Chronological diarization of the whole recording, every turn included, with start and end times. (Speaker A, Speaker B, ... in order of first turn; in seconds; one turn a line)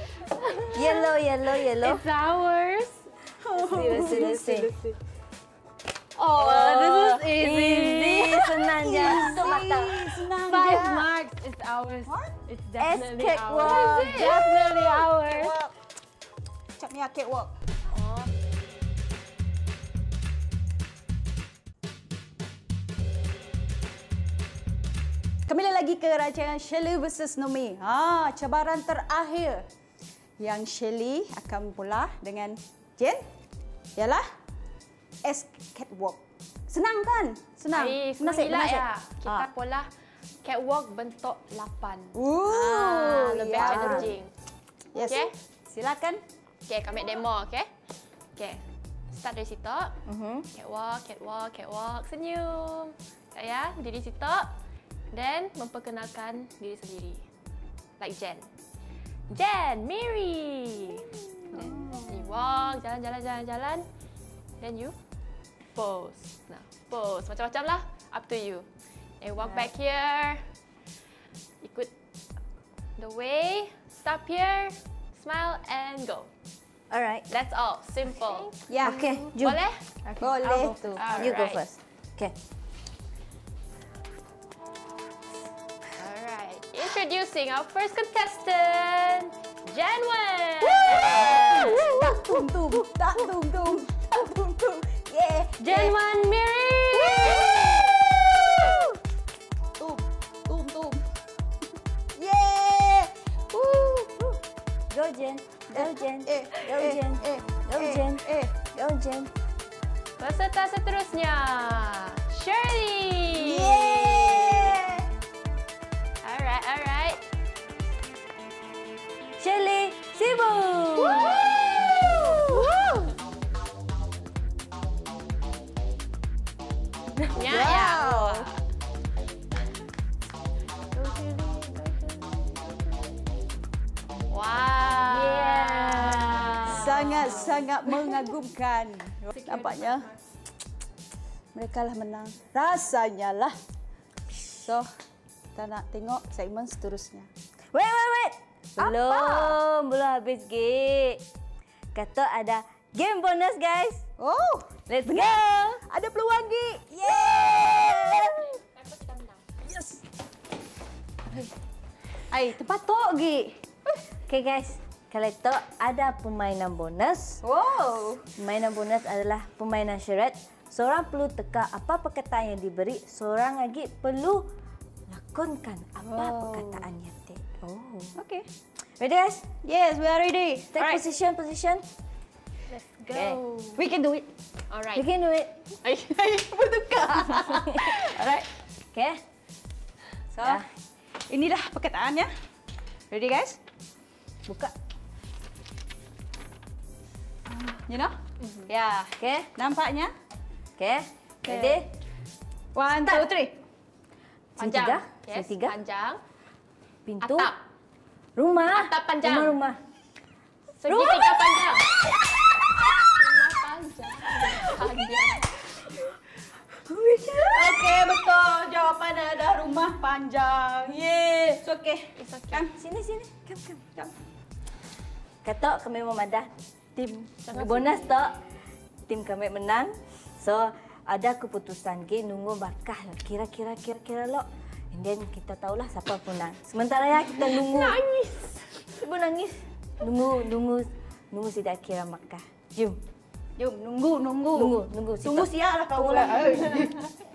Speaker A: 0.3-1.1
Speaker B: 0.7-2.0
Speaker A: 1.8-5.0
Speaker C: 3.4-4.3
Speaker B: 3.7-4.7
Speaker C: 6.3-11.1
Speaker B: 6.3-10.3
Speaker A: 6.4-6.8
Speaker A: 7.4-8.3
Speaker A: 10.4-15.5
Speaker C: 12.1-12.3
Speaker B: 12.8-15.4
Speaker D: 13.6-14.1
Speaker C: 13.6-14.3
Speaker C: 15.2-15.7
Speaker C: 16.8-17.5
Speaker D: 17.9-18.3
Speaker C: 25.4-29.6
Speaker C: 30.4-33.2
Speaker C: 34.0-34.2
Speaker C: 35.2-39.5
Speaker D: 37.7-39.9
Speaker D: 40.4-44.3
Speaker C: 42.1-44.1
Speaker B: 43.6-44.1
Speaker C: 44.9-46.2
Speaker D: 45.0-45.3
Speaker D: 46.7-47.7
Speaker D: 48.4-50.0
Speaker B: 50.0-50.5
Speaker D: 50.5-54.5
Speaker D: 55.1-57.2
Speaker D: 58.0-58.5
Speaker D: 59.3-63.9
Speaker C: 61.5-62.1
Speaker B: 61.5-62.0
Speaker D: 64.6-65.0
Speaker D: 65.7-68.7
Speaker D: 69.2-70.5
Speaker D: 71.6-71.9
Speaker D: 73.0-76.3
Speaker B: 76.9-77.2
Speaker D: 77.3-78.5
Speaker A: 78.2-79.2
Speaker C: 78.7-79.1
Speaker B: 78.8-79.6
Speaker D: 79.3-79.9
Speaker A: 80.0-81.0
Speaker C: 80.2-81.0
Speaker D: 81.0-81.6
Speaker B: 81.2-82.3
Speaker D: 86.0-92.0
Speaker C: 90.8-96.0
Speaker D: 95.6-96.9
Speaker A: 95.7-97.1
Speaker C: 96.9-99.0
Speaker C: 99.8-101.0
Speaker C: 102.1-104.4
Speaker B: 104.9-109.3
Speaker C: 105.7-108.5
Speaker D: 110.2-114.6
Speaker C: 113.3-115.1
Speaker D: 116.2-117.2
Speaker B: 119.4-122.6
Speaker C: 121.2-122.5
Speaker D: 122.7-123.1
Speaker D: 127.3-128.6
Speaker C: 127.3-128.5
Speaker A: 130.9-133.0
Speaker D: 134.3-137.6
Speaker B: 135.1-137.4
Speaker A: 135.5-136.7
Speaker C: 136.6-140.1
Speaker A: 139.4-140.2
Speaker C: 141.5-143.6
Speaker C: 144.6-144.9
Speaker C: 145.5-147.3
Speaker B: 147.7-151.2
Speaker C: 148.8-149.6
Speaker B: 151.9-154.1
Speaker C: 154.2-158.4
Speaker B: 154.9-155.8
Speaker D: 158.6-159.4
Speaker C: 159.6-160.0
Speaker C: 162.3-163.6
Speaker B: 164.3-167.4
Speaker C: 167.4-168.2
Speaker B: 168.4-174.5
Speaker B: 175.1-178.2
Speaker C: 176.0-176.9
Speaker C: 178.2-178.5
Speaker B: 179.0-179.5
Speaker C: 179.6-181.0
Speaker B: 180.7-181.8
Speaker A: 182.7-183.8
Speaker B: 183.1-183.4
Speaker C: 183.7-184.3
Speaker D: 184.7-185.1
Speaker B: 184.9-185.6
Speaker D: 185.8-186.2
Speaker C: 186.1-188.5
Speaker B: 187.5-188.0
Speaker B: 188.9-189.2
Speaker C: 190.3-190.7
Speaker B: 190.4-190.7
Speaker C: 191.3-192.3
Speaker C: 193.1-193.6
Speaker B: 194.4-194.7
Speaker C: 197.6-198.1
Speaker D: 198.4-198.7
Speaker C: 198.7-200.1
Speaker B: 199.2-199.5
Speaker B: 200.8-201.9
Speaker C: 201.4-201.8
Speaker C: 202.7-203.6
Speaker B: 203.0-203.4
Speaker D: 204.6-206.2
Speaker B: 204.6-205.8
Speaker B: 207.1-207.5
Speaker D: 207.2-207.6
Speaker B: 208.3-209.8
Speaker D: 208.7-209.6
Speaker D: 210.8-211.9
Speaker B: 210.9-211.8
Speaker D: 213.0-215.6
Speaker B: 216.8-217.9
Speaker C: 217.5-221.0
Speaker B: 220.8-221.6
Speaker C: 221.6-222.8
Speaker D: 222.2-222.7
Speaker B: 222.8-224.0
Speaker B: 225.4-228.3
Speaker D: 227.4-228.1
Speaker B: 229.1-238.0
Speaker D: 237.4-238.7
Speaker B: 238.9-243.0
Speaker C: 243.6-247.1
Speaker B: 244.5-246.8